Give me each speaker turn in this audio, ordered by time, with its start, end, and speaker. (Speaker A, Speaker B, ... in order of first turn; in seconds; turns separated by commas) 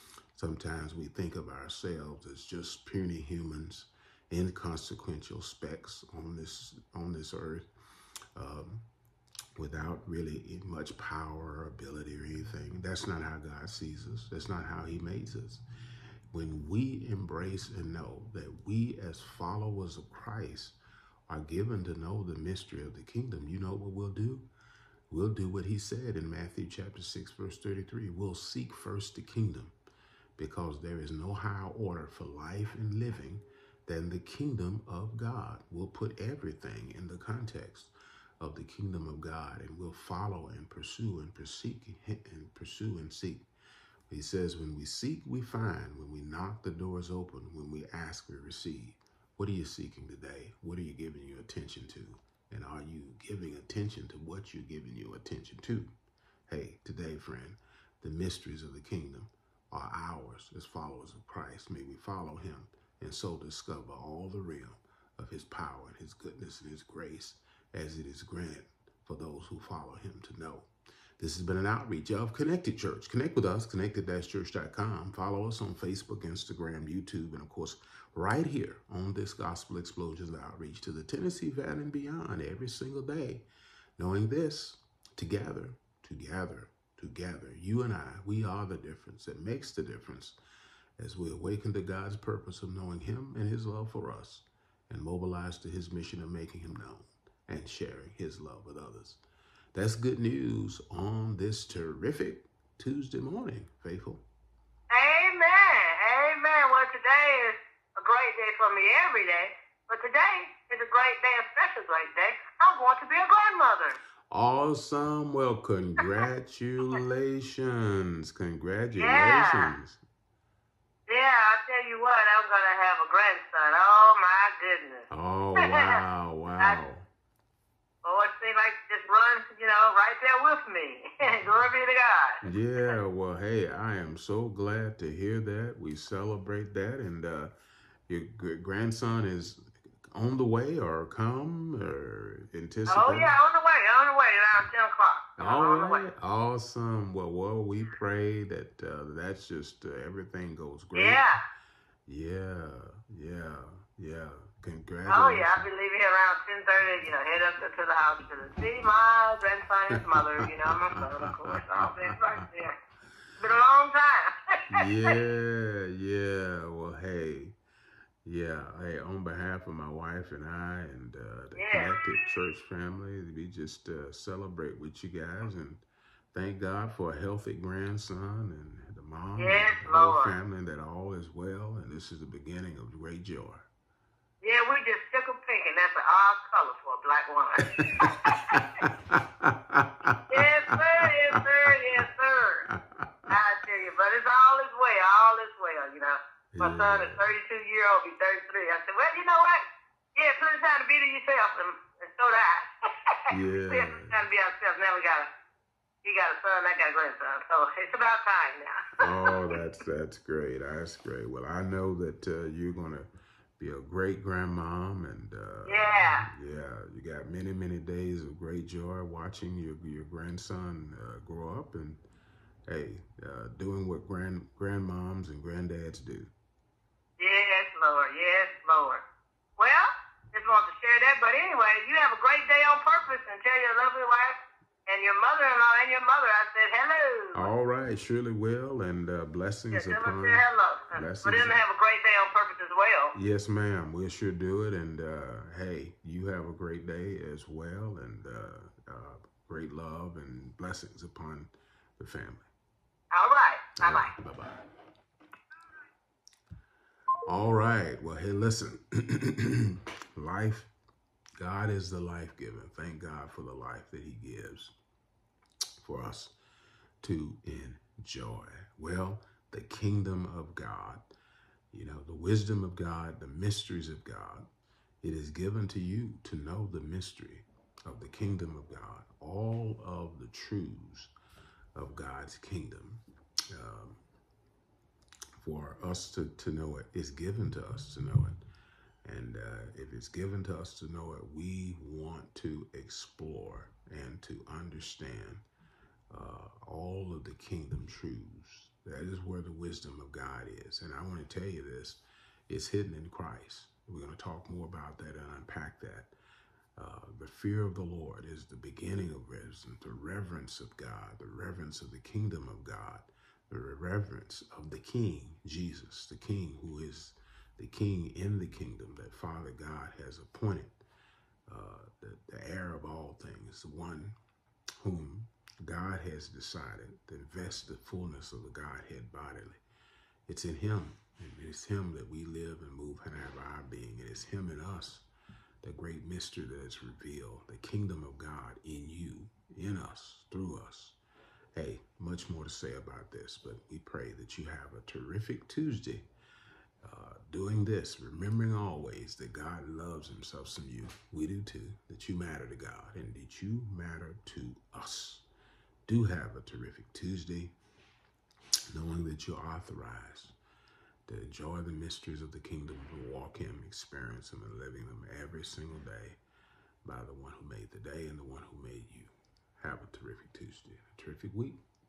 Speaker A: 0.3-7.7, Speaker A: 8.3-8.9, Speaker A: 9.6-15.6, Speaker A: 16.3-20.8, Speaker A: 21.3-24.5, Speaker A: 25.1-29.7, Speaker A: 30.4-43.5, Speaker A: 44.1-55.9, Speaker A: 56.5-83.4, Speaker A: 84.0-90.4, Speaker A: 91.0-99.2, Speaker A: 99.7-104.2, Speaker B: 104.9-114.0, Speaker A: 114.3-120.0, Speaker B: 119.0-119.7, Speaker B: 121.1-125.1, Speaker A: 125.1-127.1, Speaker B: 125.6-126.0, Speaker B: 128.0-132.9, Speaker A: 132.4-137.5, Speaker A: 138.1-139.6, Speaker A: 140.1-143.3, Speaker B: 142.9-146.1, Speaker A: 145.4-151.3, Speaker B: 150.9-151.4, Speaker A: 152.1-155.7, Speaker B: 155.1-162.8, Speaker A: 160.1-162.1, Speaker B: 163.4-164.3, Speaker A: 164.7-167.6, Speaker A: 168.2-183.7, Speaker B: 171.6-172.0, Speaker B: 179.4-180.3, Speaker B: 184.4-188.7, Speaker A: 188.2-191.7, Speaker B: 190.3-192.7, Speaker A: 192.7-193.3, Speaker B: 193.3-199.6, Speaker A: 196.5-197.2, Speaker B: 200.1-202.7, Speaker A: 203.3-204.2, Speaker B: 203.7-205.3, Speaker B: 206.0-209.6, Speaker A: 209.0-222.0, Speaker B: 215.7-216.3, Speaker A: 222.7-226.3, Speaker B: 227.2-229.0, Speaker B: 229.6-237.5, Speaker A: 237.3-241.6, Speaker B: 239.7-243.1, Speaker A: 243.1-252.5, Speaker B: 253.1-254.1, Speaker A: 253.8-254.6, Speaker A: 257.2-260.7, Speaker A: 261.4-264.7, Speaker A: 265.8-266.3, Speaker A: 267.0-271.1, Speaker A: 271.7-274.5, Speaker A: 275.0-281.1, Speaker A: 281.8-284.0, Speaker A: 285.4-288.4, Speaker A: 289.0-295.4, Speaker A: 296.1-306.1, Speaker A: 306.8-320.7, Speaker A: 321.5-324.2, Speaker A: 324.8-329.6, Speaker A: 330.3-335.1, Speaker A: 335.6-341.0, Speaker A: 341.5-346.1, Speaker A: 346.8-355.2, Speaker A: 355.9-357.5, Speaker A: 358.7-360.3, Speaker A: 361.1-366.2, Speaker A: 366.8-371.6